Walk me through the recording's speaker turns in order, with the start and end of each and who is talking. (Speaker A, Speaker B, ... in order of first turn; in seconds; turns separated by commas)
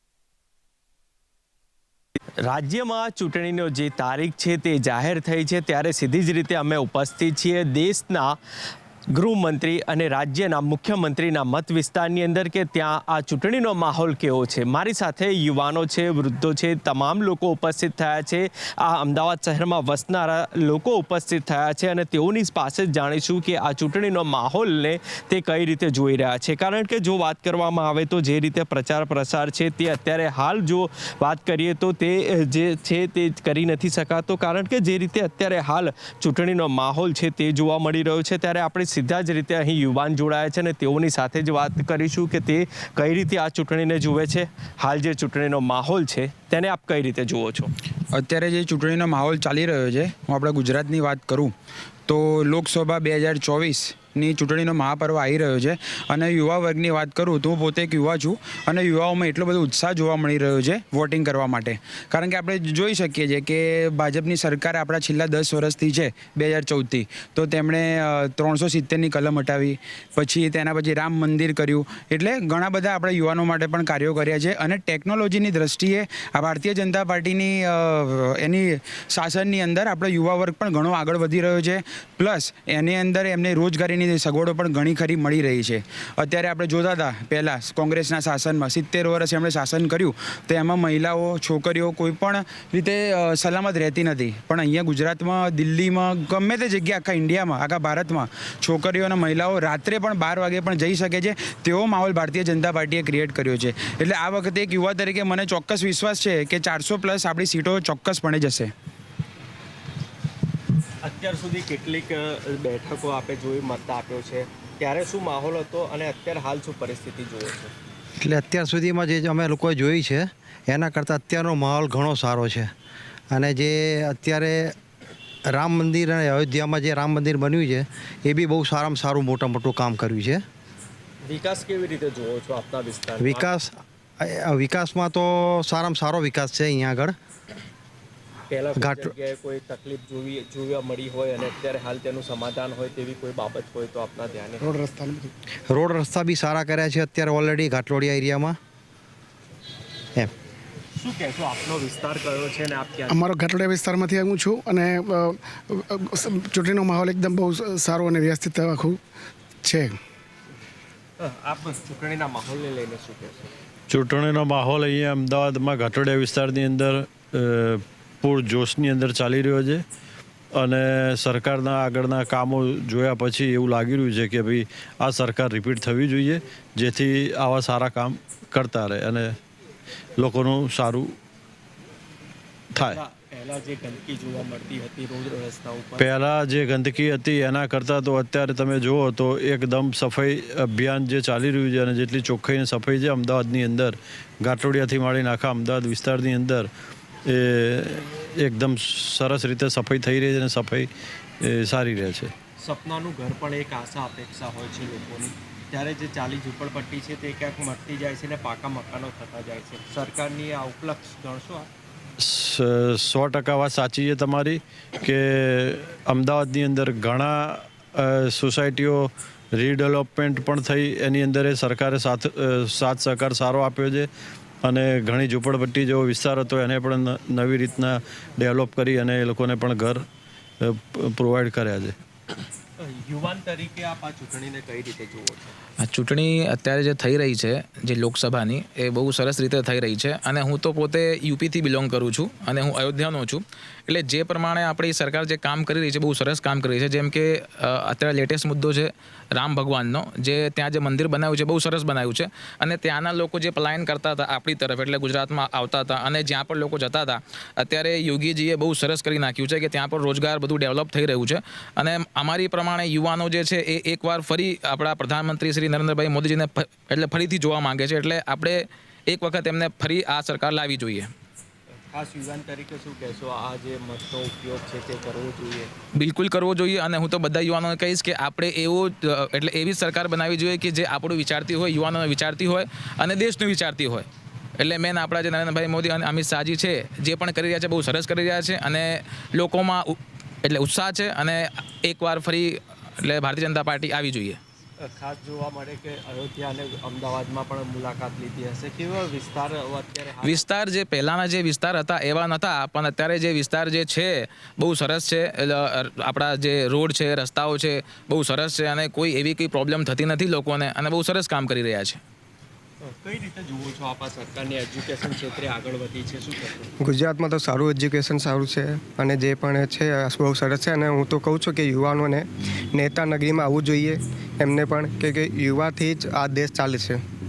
Speaker A: 2.5-8.4, Speaker A: 9.2-47.7, Speaker B: 48.1-51.5, Speaker B: 52.1-108.7, Speaker A: 111.0-117.7, Speaker C: 118.2-122.7, Speaker C: 123.3-124.8, Speaker C: 125.5-130.4, Speaker A: 131.2-133.5, Speaker C: 133.2-137.2, Speaker A: 138.5-144.7, Speaker C: 138.8-139.1, Speaker D: 144.6-145.3, Speaker C: 145.7-148.6, Speaker A: 151.0-153.3, Speaker D: 153.1-159.0, Speaker D: 159.6-160.0, Speaker A: 161.2-163.5, Speaker E: 163.9-169.8, Speaker E: 170.6-179.4, Speaker E: 180.2-181.2, Speaker E: 182.8-183.0, Speaker A: 182.9-186.1, Speaker E: 186.0-196.7, Speaker E: 197.3-200.9, Speaker E: 201.4-202.3, Speaker A: 202.6-211.7, Speaker E: 212.2-224.1, Speaker E: 224.6-230.0, Speaker E: 230.6-231.9, Speaker A: 232.8-235.5, Speaker F: 235.8-271.1, Speaker A: 271.9-275.7, Speaker F: 276.0-284.1, Speaker F: 284.6-294.4, Speaker A: 294.8-300.4, Speaker F: 300.2-312.0, Speaker A: 312.8-316.7, Speaker G: 316.8-327.0